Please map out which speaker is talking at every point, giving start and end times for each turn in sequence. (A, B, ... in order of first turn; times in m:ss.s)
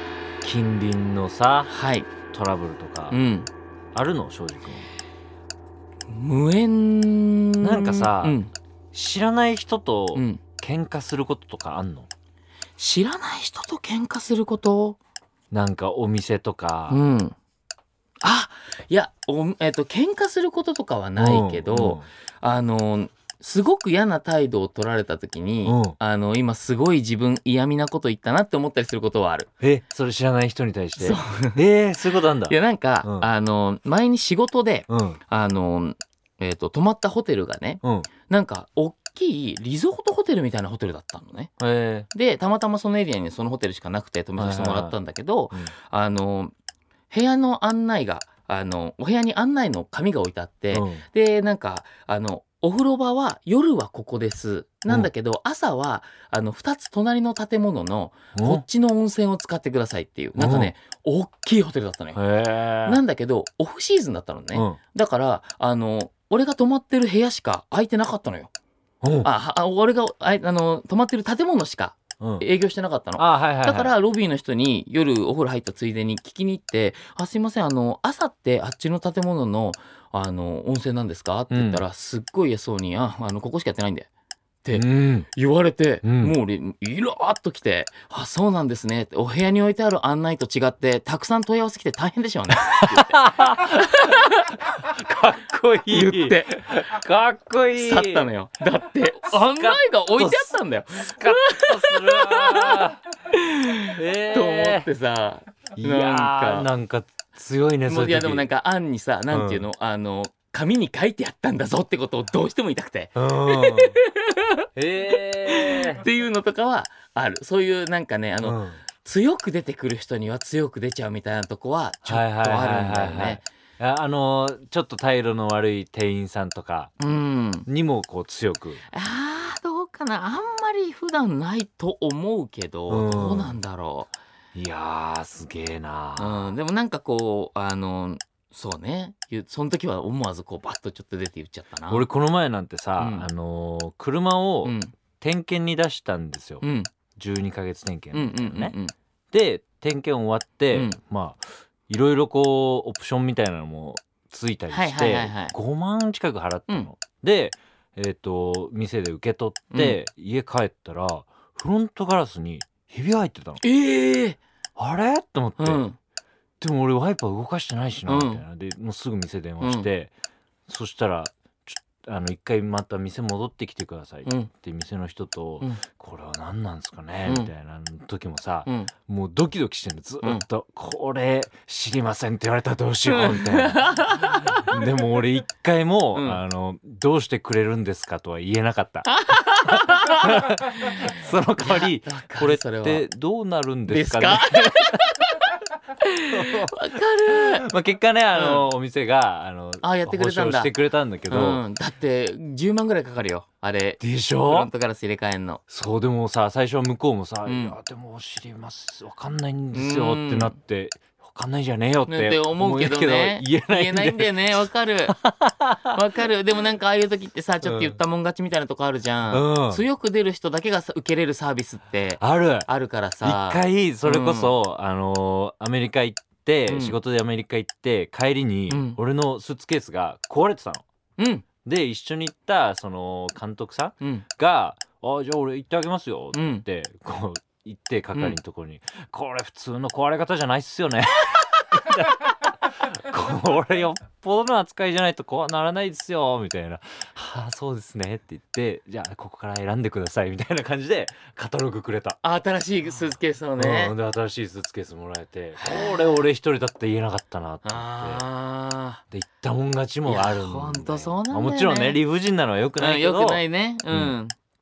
0:00.4-0:01.7 A
0:01.7-0:02.1 B
0:02.3-0:03.2 A
0:03.1-0:03.5 B
0:03.9-0:04.9 A
0:06.1-0:08.5 B
0:07.6-0:08.4 A
0:08.9-0:12.1 A
0:10.1-0:10.4 B
0:12.8-0:15.0 B
0:15.5-0:17.0 A
0:16.9-0:17.4 B
0:18.2-0:29.5 B
0:21.2-0:22.0 A
0:25.6-0:26.0 A
0:29.6-0:33.3 A
0:31.0-0:31.6 B
0:32.5-0:41.5 B
0:34.9-0:35.2 A
0:37.8-0:38.1 A
0:41.6-0:42.1 A
0:42.1-0:46.5 B
0:44.4-0:45.0 A
0:47.1-1:02.2 B
0:50.7-0:51.0 A
0:58.4-0:58.6 A
1:00.4-1:00.7 A
1:02.2-1:03.0 A
1:02.8-1:08.5 B
1:04.5-1:04.8 A
1:09.0-1:09.3 A
1:09.2-1:24.1 B
1:12.2-1:12.4 A
1:13.2-1:13.9 A
1:21.5-1:21.8 A
1:24.6-1:34.5 B
1:24.7-1:25.3 A
1:26.0-1:26.3 A
1:32.8-1:34.2 A
1:34.8-1:38.3 A
1:35.9-1:36.5 B
1:37.8-1:46.7 B
1:39.2-1:43.0 A
1:43.9-1:44.9 A
1:45.8-1:48.4 A
1:47.8-1:54.5 B
1:49.3-1:49.6 A
1:53.2-1:54.0 A
1:54.8-1:56.0 A
1:55.5-2:03.4 B
1:58.4-1:58.8 A
2:02.0-2:07.0 A
2:07.0-2:07.7 B
2:07.7-2:08.8 A
2:08.9-2:14.1 B
2:12.9-2:13.6 A
2:14.5-2:16.5 A
2:16.2-2:22.1 B
2:21.9-2:26.6 A
2:23.0-2:23.3 B
2:24.6-2:24.9 B
2:26.6-2:26.9 B
2:27.2-2:28.7 A
2:28.1-2:28.9 B
2:29.3-2:43.6 A
2:30.7-2:31.0 B
2:34.7-2:35.5 B
2:39.7-2:40.0 B
2:43.6-2:44.4 B
2:44.8-2:45.8 A
2:45.6-2:46.0 B
2:46.6-2:50.1 A
2:48.1-2:48.4 B
2:49.6-2:49.9 B
2:50.7-3:15.0 A
2:54.2-2:54.5 B
2:58.7-2:58.9 B
3:03.1-3:04.8 B
3:06.1-3:06.4 B
3:09.2-3:10.2 B
3:11.6-3:13.1 B
3:13.9-3:17.6 B
3:16.3-3:21.6 A
3:18.3-3:18.7 B
3:19.8-3:20.7 B
3:21.3-3:25.6 B
3:24.0-3:24.7 A
3:25.7-3:36.0 A
3:27.4-3:27.8 B
3:29.7-3:30.6 B
3:32.1-3:35.2 B
3:35.9-3:44.5 B
3:37.6-3:38.0 A
3:39.3-3:39.8 A
3:42.2-3:42.7 A
3:43.2-3:50.8 A
3:46.7-3:47.0 B
3:48.7-3:49.0 B
3:51.2-3:51.4 B
3:51.6-4:12.2 A
3:54.0-3:54.2 B
3:56.3-3:56.6 B
4:12.2-4:13.9 B
4:13.6-4:18.2 A
4:15.6-4:16.2 B
4:17.6-4:19.0 B
4:19.1-4:24.2 A
4:20.1-4:22.0 B
4:22.8-4:24.4 B